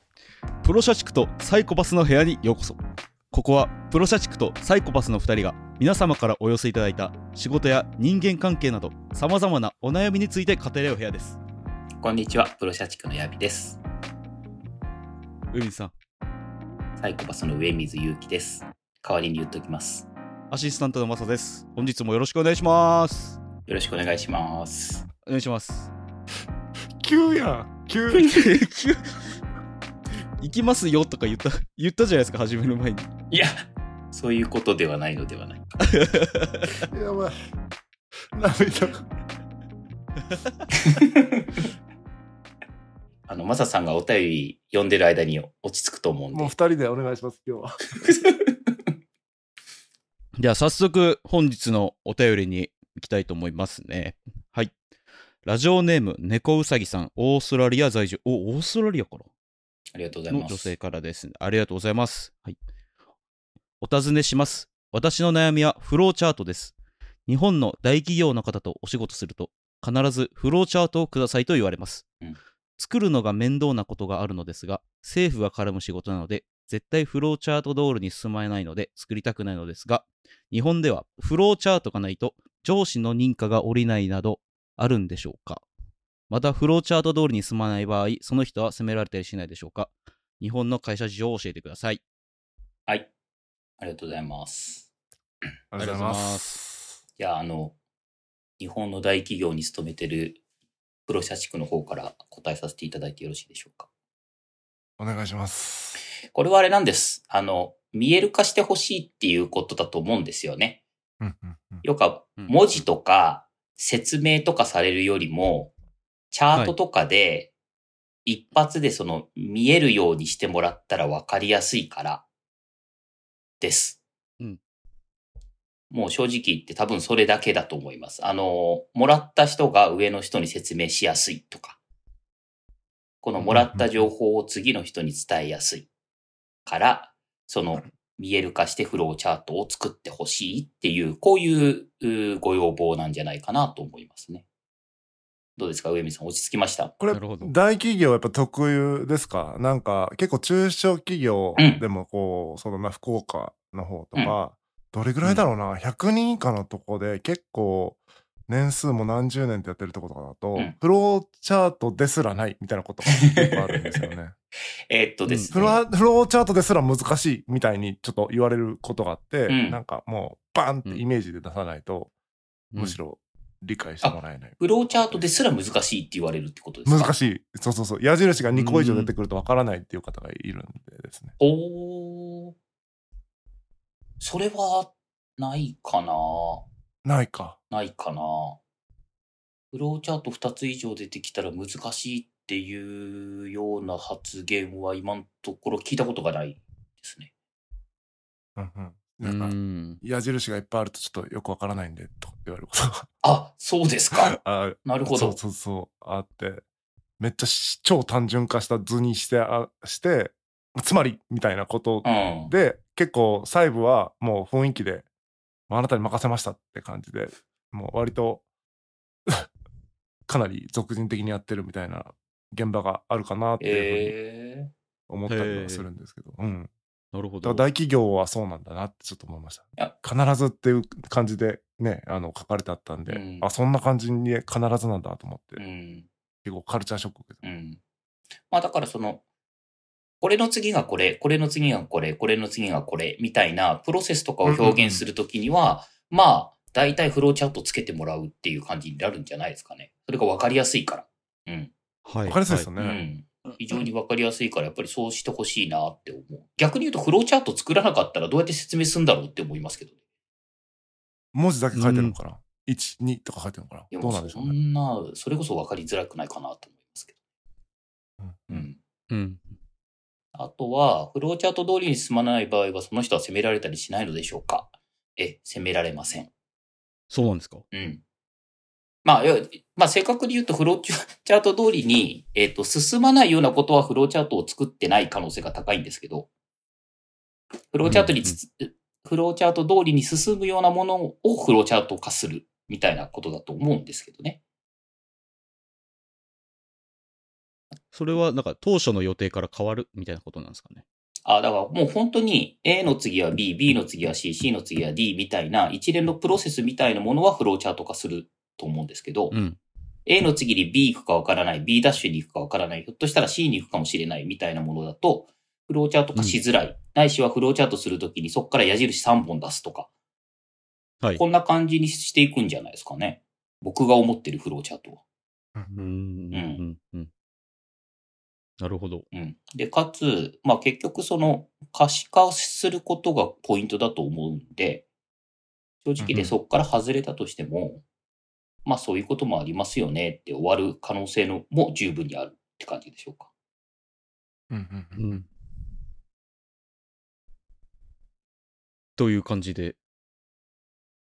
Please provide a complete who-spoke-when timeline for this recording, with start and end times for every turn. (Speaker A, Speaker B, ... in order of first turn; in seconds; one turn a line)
Speaker A: 0.6-2.8
Speaker A: 3.3-11.4
Speaker B: 12.0-13.8
Speaker A: 15.5-15.9
Speaker B: 17.0-20.1
Speaker A: 20.5-23.4
Speaker B: 23.6-25.0
Speaker A: 25.2-25.9
Speaker C: 27.0-28.4
Speaker A: 28.1-29.2
Speaker A: 30.4-33.1
Speaker B: 33.3-35.7
Speaker A: 35.8-36.8
Speaker C: 36.9-37.3
Speaker C: 38.3-39.0
Speaker B: 40.8-41.6
Speaker B: 43.3-46.5
Speaker C: 46.3-47.7
Speaker B: 48.0-48.7
Speaker A: 50.4-54.7
Speaker A: 55.4-59.3
Speaker B: 59.9-60.7
Speaker A: 60.3-62.5
Speaker A: 63.8-66.7
Speaker A: 67.3-72.0
Speaker A: 72.8-85.6
Speaker A: 86.3-92.0
Speaker B: 93.8-94.9
Speaker C: 95.7-97.0
Speaker A: 95.8-96.6
Speaker B: 97.2-97.7
Speaker B: 98.6-100.4
Speaker B: 101.1-103.9
Speaker C: 105.0-106.0
Speaker B: 106.3-110.8
Speaker C: 111.2-111.8
Speaker B: 111.8-115.7
Speaker A: 112.4-112.8
Speaker B: 116.3-117.5
Speaker B: 118.2-122.2
Speaker B: 123.6-124.0
Speaker B: 125.9-131.8
Speaker B: 133.2-135.9
Speaker C: 133.4-133.9
Speaker B: 136.7-144.4
Speaker B: 145.6-146.9
Speaker C: 147.0-164.3
Speaker A: 147.1-147.5
Speaker B: 151.6-151.8
Speaker B: 163.2-164.1
Speaker B: 164.9-165.8
Speaker A: 165.3-165.5
Speaker C: 165.5-172.1
Speaker B: 169.5-169.8
Speaker A: 172.7-173.0
Speaker C: 172.8-175.2
Speaker B: 174.0-177.2
Speaker C: 176.8-181.3
Speaker A: 178.5-179.1
Speaker B: 181.4-182.5
Speaker B: 184.2-186.7
Speaker C: 187.0-187.6
Speaker B: 187.7-188.6
Speaker B: 189.7-197.3
Speaker C: 198.6-203.1
Speaker A: 199.2-200.0
Speaker B: 203.2-205.4
Speaker C: 204.1-206.6
Speaker C: 207.2-215.1
Speaker B: 212.0-212.5
Speaker C: 215.7-218.4
Speaker C: 220.3-224.1
Speaker B: 223.6-224.7
Speaker C: 225.1-226.7
Speaker A: 225.3-225.9
Speaker A: 227.1-227.6
Speaker C: 227.4-235.6
Speaker B: 233.1-233.5
Speaker B: 235.6-236.1
Speaker C: 236.4-237.4
Speaker B: 237.4-237.8
Speaker B: 238.5-239.2
Speaker B: 240.2-251.7
Speaker C: 244.4-245.0
Speaker A: 252.0-252.7
Speaker C: 252.2-253.0
Speaker B: 252.8-259.9
Speaker C: 261.3-264.5
Speaker A: 261.7-262.1
Speaker B: 263.9-267.1
Speaker C: 268.2-268.7
Speaker B: 268.5-268.8
Speaker A: 269.1-269.4
Speaker B: 270.3-276.3
Speaker A: 277.1-277.6
Speaker B: 277.7-278.0
Speaker B: 279.0-286.3
Speaker B: 287.7-294.4
Speaker A: 287.9-288.4
Speaker A: 297.9-300.8
Speaker B: 301.2-309.4
Speaker A: 309.3-309.6
Speaker B: 310.1-319.9
Speaker B: 321.2-325.0
Speaker C: 325.5-325.9
Speaker A: 325.7-327.1
Speaker B: 326.3-326.6
Speaker A: 328.6-329.1
Speaker B: 329.1-334.8
Speaker B: 335.8-337.8
Speaker C: 336.0-336.3
Speaker B: 338.6-343.3
Speaker C: 344.5-345.2
Speaker A: 344.9-345.3
Speaker A: 349.0-349.8